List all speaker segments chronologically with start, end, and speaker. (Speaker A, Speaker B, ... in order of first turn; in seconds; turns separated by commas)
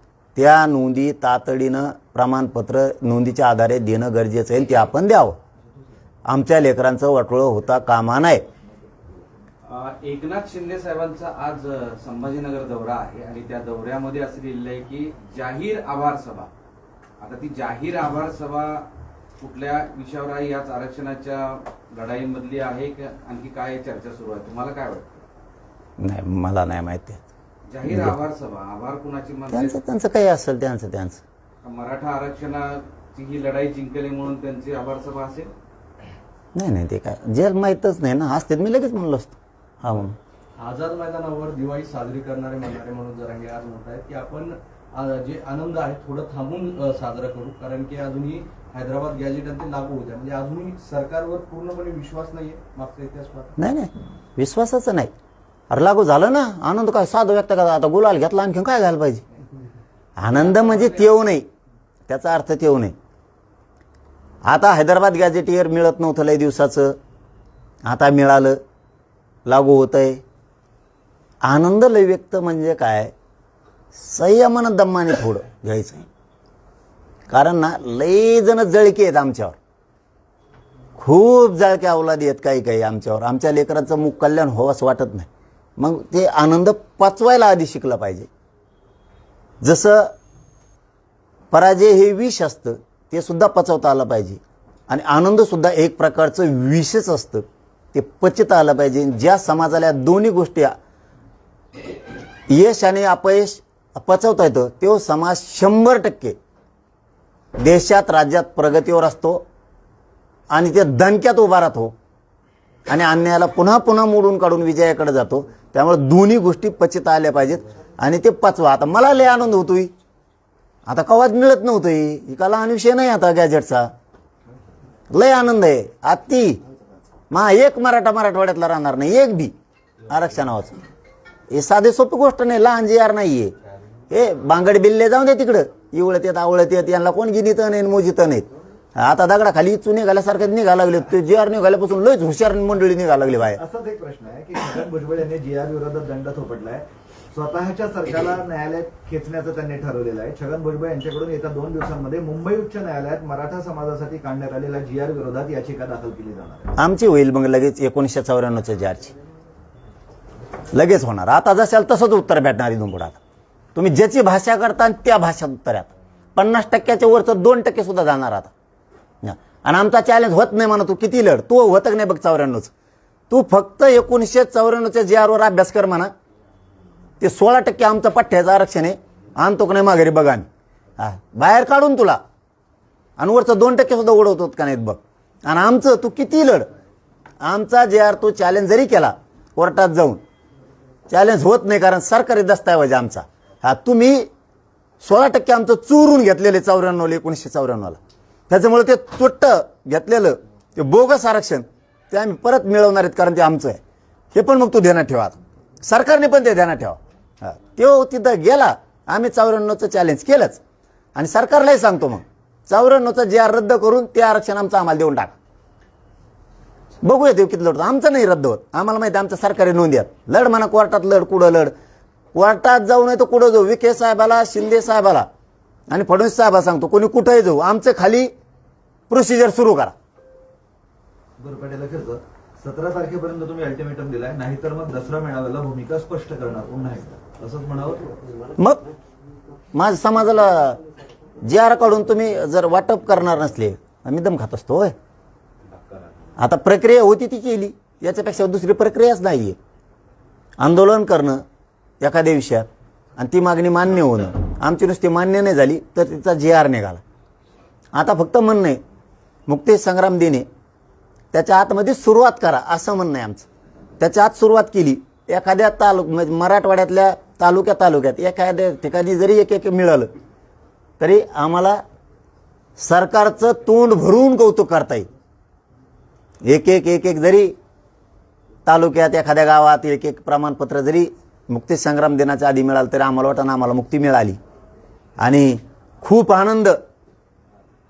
Speaker A: 0.3-5.4, Speaker A: 6.2-8.4, Speaker B: 9.6-16.5, Speaker B: 17.2-18.9, Speaker B: 19.4-25.2, Speaker A: 26.0-27.2, Speaker B: 27.7-29.8, Speaker A: 27.8-28.1, Speaker A: 29.5-31.2, Speaker B: 31.6-35.5, Speaker A: 36.5-40.1, Speaker C: 40.6-44.3, Speaker C: 45.0-53.5, Speaker A: 53.6-55.1, Speaker A: 55.7-59.2, Speaker A: 60.2-61.5, Speaker A: 62.1-62.9, Speaker A: 64.4-67.0, Speaker A: 67.8-68.6, Speaker A: 69.5-70.2, Speaker A: 71.4-73.1, Speaker A: 73.9-76.0, Speaker A: 77.3-79.6, Speaker A: 81.0-88.3, Speaker A: 89.6-90.1, Speaker A: 91.5-100.8, Speaker A: 102.5-106.3, Speaker A: 107.6-109.4, Speaker A: 110.5-111.9, Speaker A: 112.9-119.9, Speaker A: 120.9-123.9, Speaker A: 125.1-126.6, Speaker A: 127.3-129.5, Speaker A: 130.1-130.8, Speaker A: 131.5-133.5, Speaker A: 134.1-143.6, Speaker D: 143.5-156.7, Speaker A: 156.8-159.1, Speaker A: 160.7-163.2, Speaker A: 163.7-168.5, Speaker A: 169.2-172.7, Speaker A: 173.3-176.1, Speaker A: 177.2-180.5, Speaker A: 181.0-182.2, Speaker A: 183.2-186.7, Speaker A: 187.4-190.2, Speaker A: 191.1-194.3, Speaker A: 195.0-198.0, Speaker A: 198.5-203.8, Speaker A: 204.3-210.6, Speaker A: 211.1-215.3, Speaker A: 217.0-221.7, Speaker A: 222.3-225.3, Speaker A: 225.9-228.3, Speaker A: 229.1-229.9, Speaker D: 231.4-238.2, Speaker A: 239.7-240.8, Speaker A: 241.4-244.9, Speaker A: 246.4-249.6, Speaker A: 250.6-251.4, Speaker A: 252.0-257.0, Speaker A: 257.9-258.8, Speaker A: 259.5-260.5, Speaker A: 261.3-263.5, Speaker A: 264.0-270.1, Speaker A: 271.0-271.8, Speaker A: 272.8-275.1, Speaker A: 276.4-277.5, Speaker A: 278.6-284.4, Speaker A: 285.2-286.8